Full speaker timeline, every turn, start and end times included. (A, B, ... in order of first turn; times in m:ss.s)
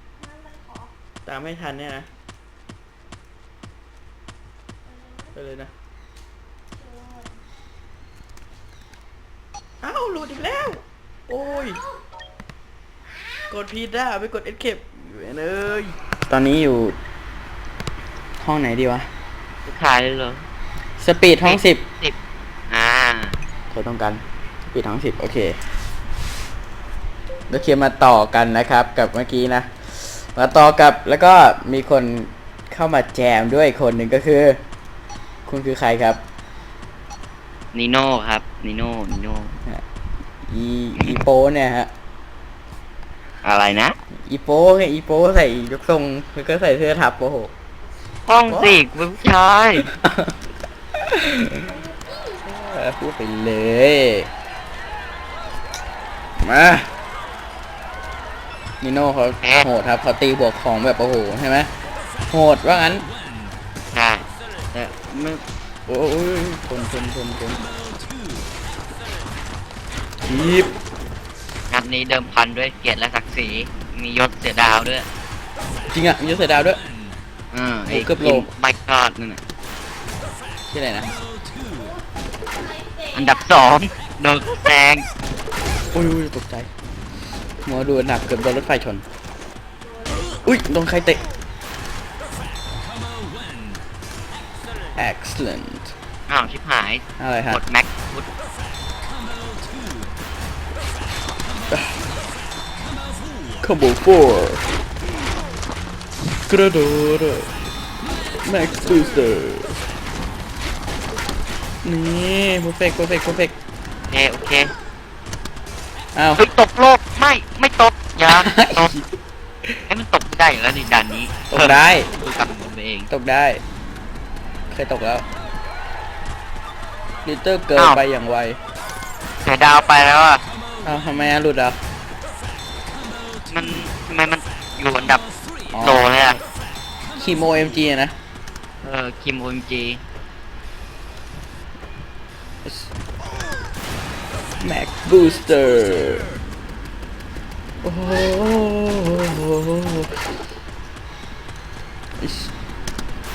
0:00.2-0:00.9 A
0:01.3-0:02.1 B
0:04.8-0:05.4 A
0:05.4-0:05.7 B
0:06.7-0:07.4 A
0:09.8-0:11.8 B
0:11.4-0:12.0 A
0:13.1-0:13.5 A
0:13.5-0:17.0 B
0:18.4-0:19.1 B
0:19.6-0:20.5 C
0:21.0-0:21.8 B
0:21.4-0:22.2 C
0:22.7-0:23.4 C
0:23.7-0:25.6 B
0:27.5-0:34.6 B
0:35.5-0:36.2 B
0:37.7-0:39.6 C
0:40.5-0:41.9 B
0:43.4-0:44.0 C
0:44.2-0:47.5 B
0:48.3-0:49.9 C
0:48.5-0:48.8 B
0:49.8-0:50.4 B
0:51.0-0:51.7 B
0:51.6-0:52.4 A
0:52.4-0:54.3 B
0:56.4-0:56.9 B
0:58.8-1:01.7 B
0:59.4-0:59.7 C
1:02.3-1:03.1 B
1:03.9-1:05.4 C
1:05.9-1:07.6 B
1:10.3-1:10.7 B
1:11.7-1:15.1 C
1:15.9-1:16.8 B
1:17.5-1:19.4 C
1:17.9-1:18.5 B
1:20.7-1:21.1 B
1:21.7-1:23.6 A
1:23.2-1:25.1 C
1:25.9-1:26.7 B
1:27.6-1:29.0 B
1:29.8-1:30.6 A
1:30.4-1:31.2 B
1:35.0-1:35.9 B
1:36.3-1:38.3 C
1:37.2-1:37.6 B
1:43.6-1:44.6 B
1:46.5-1:47.5 B
1:48.4-1:49.8 B
1:51.8-1:53.6 B
1:54.1-1:54.7 C
1:56.2-1:56.4 B
1:56.4-1:58.9 C
1:58.3-1:59.1 B
1:59.9-2:03.1 C
2:01.5-2:02.1 B
2:03.1-2:03.6 B
2:04.7-2:05.2 B
2:07.2-2:08.6 B
2:09.4-2:10.4 C
2:10.8-2:11.8 B
2:13.5-2:15.2 C
2:15.7-2:16.1 B
2:15.8-2:16.4 C
2:17.2-2:18.1 B
2:18.8-2:20.0 C
2:24.6-2:26.3 B
2:27.8-2:30.3 B
2:32.2-2:32.5 B